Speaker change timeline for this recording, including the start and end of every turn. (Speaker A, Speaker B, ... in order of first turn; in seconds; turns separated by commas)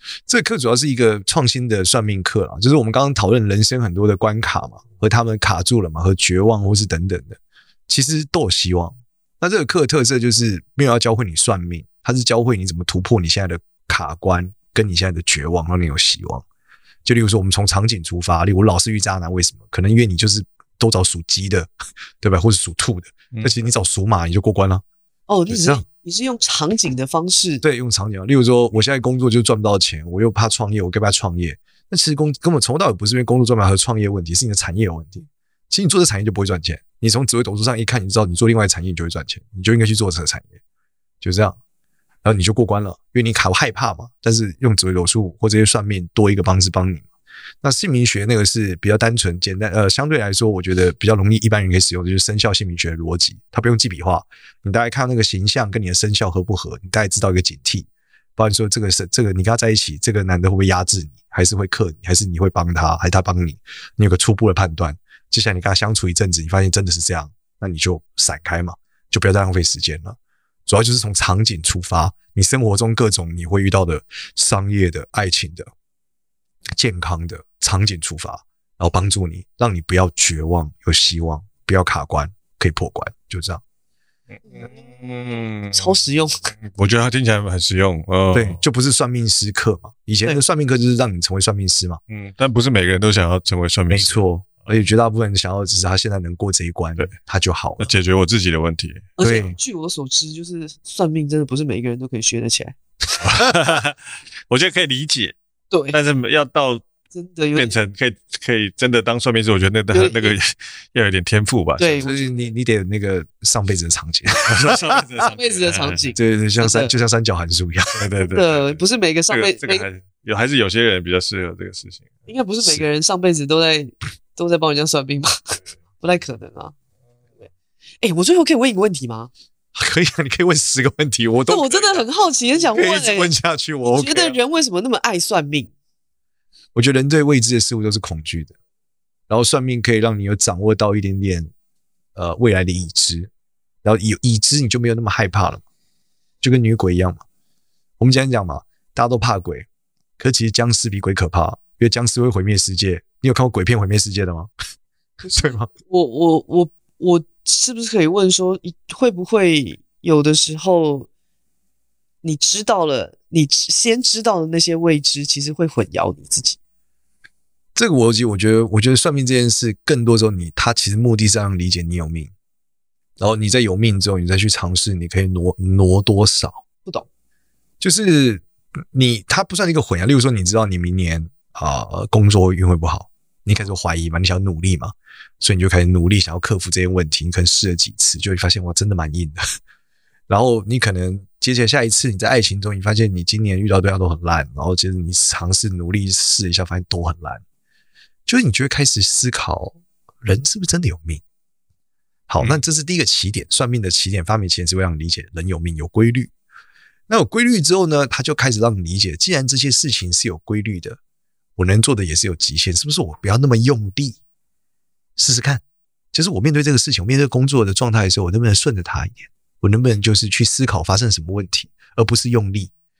Speaker A: 0.3-16.4, Speaker A: 17.0-21.7, Speaker A: 22.2-24.8, Speaker B: 23.3-23.6, Speaker C: 25.3-27.6, Speaker A: 25.5-25.8, Speaker A: 27.6-40.5, Speaker A: 41.2-41.6, Speaker A: 42.2-47.0, Speaker A: 47.6-75.7, Speaker A: 76.8-83.6, Speaker B: 84.3-88.6, Speaker C: 85.7-86.5, Speaker A: 88.3-92.0, Speaker B: 92.1-94.2, Speaker A: 93.9-97.9, Speaker B: 97.8-99.2, Speaker C: 99.2-102.8, Speaker A: 99.2-99.5, Speaker B: 103.2-105.3, Speaker C: 105.7-106.0, Speaker B: 105.9-106.8, Speaker C: 107.1-107.8, Speaker B: 107.5-112.0, Speaker C: 109.9-110.3, Speaker C: 111.8-112.2, Speaker A: 112.0-114.9, Speaker B: 114.5-116.1, Speaker C: 115.3-116.9, Speaker A: 116.1-118.0, Speaker B: 117.9-118.8, Speaker C: 118.3-119.9, Speaker B: 119.3-122.8, Speaker C: 122.3-126.7, Speaker C: 128.0-129.3, Speaker A: 129.7-132.0, Speaker C: 131.5-133.3, Speaker A: 132.6-134.3, Speaker C: 133.8-135.7, Speaker A: 136.7-138.5, Speaker A: 139.3-141.5, Speaker A: 142.2-143.3, Speaker A: 143.8-145.6, Speaker A: 146.4-147.2, Speaker A: 148.0-149.7, Speaker A: 150.2-154.5, Speaker C: 155.2-161.1, Speaker A: 155.2-155.7, Speaker C: 162.2-166.6, Speaker A: 167.7-172.3, Speaker A: 173.2-176.6, Speaker A: 177.8-189.4, Speaker A: 190.3-197.4, Speaker A: 198.2-201.2, Speaker A: 202.3-206.3, Speaker A: 207.1-211.0, Speaker A: 211.6-214.2, Speaker A: 215.2-215.6, Speaker A: 216.1-222.7